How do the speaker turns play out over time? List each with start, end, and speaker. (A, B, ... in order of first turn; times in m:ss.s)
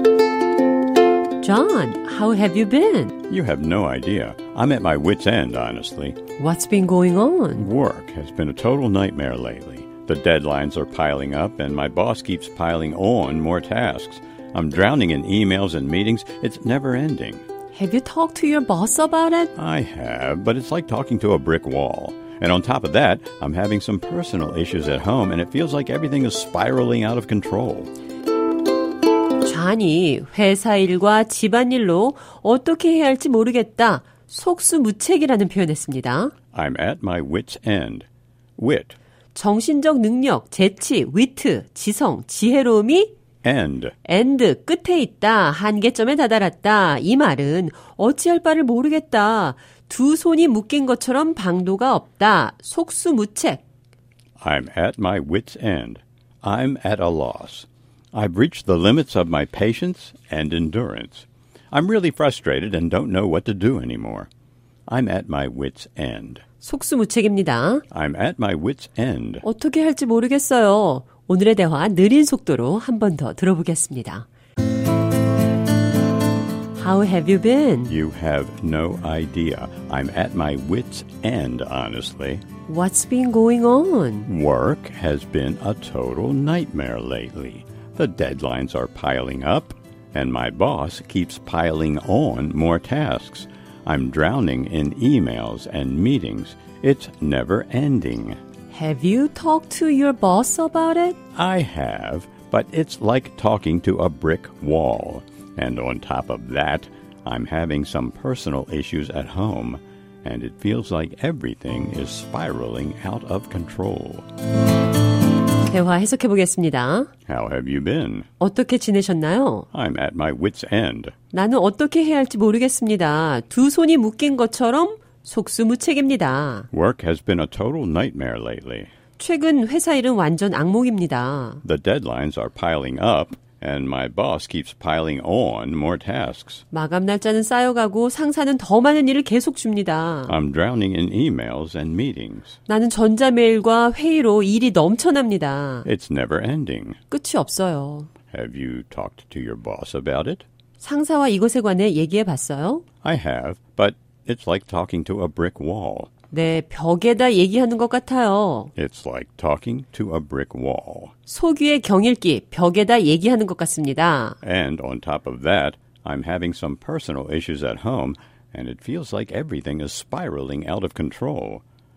0:01.4-0:03.1 A
0:03.3-0:06.2 B
0:06.4-0:07.7 A
0:07.5-0:17.4 B
0:17.7-0:19.5 A
0:19.6-0:27.9 B
0:29.4-0:36.3 A
0:36.5-0:39.0 B
0:39.3-0:43.1 A
0:43.4-0:43.9 B
0:44.0-0:53.6 A
0:54.4-1:04.3 B
1:04.9-1:06.4 B
1:06.6-1:07.8 A
1:07.9-1:09.4 B
1:09.4-1:14.2 A
1:16.7-1:17.9 A
1:17.9-1:22.4 B
1:22.7-1:24.3 A
1:24.3-1:38.4 B
1:38.7-1:41.2 A
1:41.3-1:54.3 B
1:55.7-1:57.1 A
1:57.3-1:58.3 B
1:58.4-1:59.7 A
1:59.7-2:01.1 B
2:01.3-2:06.7 A
2:06.7-2:08.9 B
2:09.2-2:11.6 A
2:11.6-2:16.6 B
2:16.7-2:20.3 A
2:20.3-2:22.6 B
2:22.7-2:25.8 A
2:25.8-2:27.0 B
2:27.1-2:28.1 A
2:28.3-2:30.4 B
2:30.8-2:32.8 A
2:33.0-2:36.1 B
2:36.3-2:38.7 A
2:38.8-2:41.1 B
2:41.3-2:44.4 A
2:44.4-2:51.6 B